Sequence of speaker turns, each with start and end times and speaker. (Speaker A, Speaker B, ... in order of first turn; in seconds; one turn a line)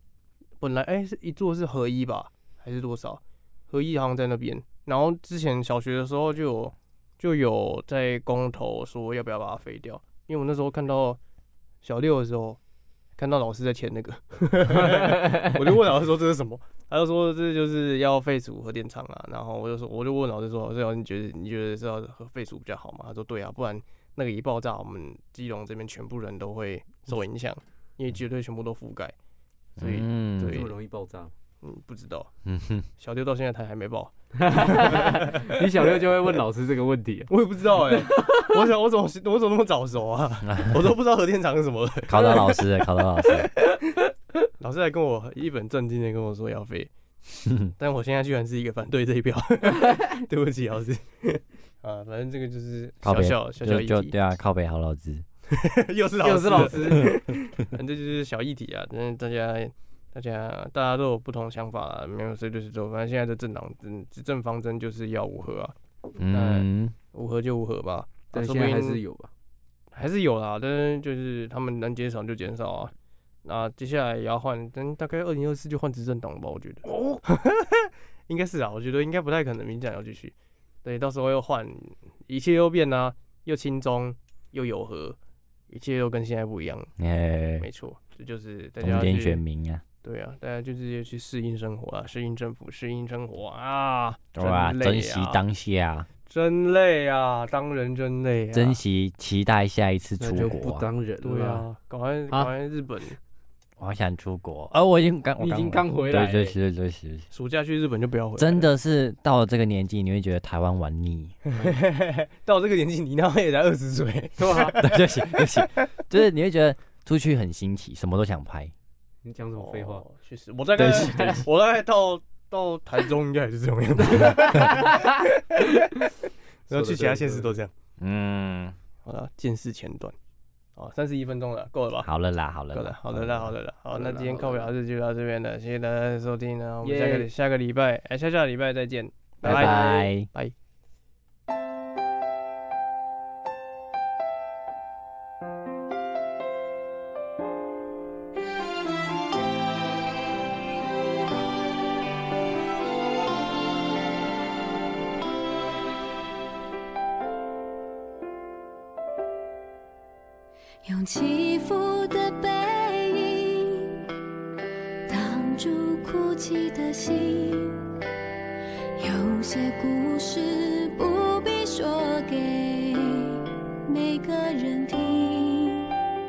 Speaker A: 0.6-11.2
Speaker A: 11.8-12.6
Speaker A: 13.2-29.1
Speaker B: 15.1-15.4
Speaker C: 29.8-30.6
Speaker A: 29.8-30.7
Speaker B: 30.4-31.3
Speaker A: 31.6-32.3
Speaker C: 32.5-32.9
Speaker A: 33.0-35.5
Speaker B: 34.4-37.3
Speaker A: 37.3-42.5
Speaker B: 38.1-38.5
Speaker C: 40.5-40.9
Speaker C: 42.1-43.5
Speaker A: 44.6-46.9
Speaker C: 47.5-47.7
Speaker A: 47.8-54.1
Speaker C: 53.0-55.2
Speaker A: 55.5-65.7
Speaker B: 56.2-57.2
Speaker C: 66.2-67.0
Speaker A: 66.3-69.0
Speaker B: 68.3-69.3
Speaker A: 69.9-72.9
Speaker A: 73.5-85.2
Speaker A: 85.7-86.9
Speaker C: 87.0-87.7
Speaker A: 87.6-89.4
Speaker C: 88.8-89.8
Speaker A: 90.0-95.4
Speaker C: 94.3-96.1
Speaker A: 96.3-98.8
Speaker C: 98.5-100.8
Speaker B: 100.2-101.7
Speaker A: 101.2-103.2
Speaker C: 103.8-107.3
Speaker B: 105.4-106.6
Speaker A: 107.3-108.7
Speaker C: 108.4-111.4
Speaker A: 111.5-115.9
Speaker B: 114.4-114.8
Speaker C: 114.8-118.7
Speaker B: 119.2-120.0
Speaker A: 119.6-125.7
Speaker C: 120.8-121.4
Speaker B: 120.8-121.4
Speaker B: 124.0-125.2
Speaker A: 126.7-127.7
Speaker B: 126.7-127.5
Speaker C: 128.0-128.8
Speaker A: 129.1-130.2
Speaker A: 130.8-132.1
Speaker C: 132.0-133.6
Speaker A: 132.7-140.5
Speaker B: 133.9-134.7
Speaker B: 136.8-137.3
Speaker C: 139.4-140.3
Speaker B: 139.4-139.7
Speaker D: 160.8-164.0
Speaker D: 165.1-167.8
Speaker D: 169.0-175.9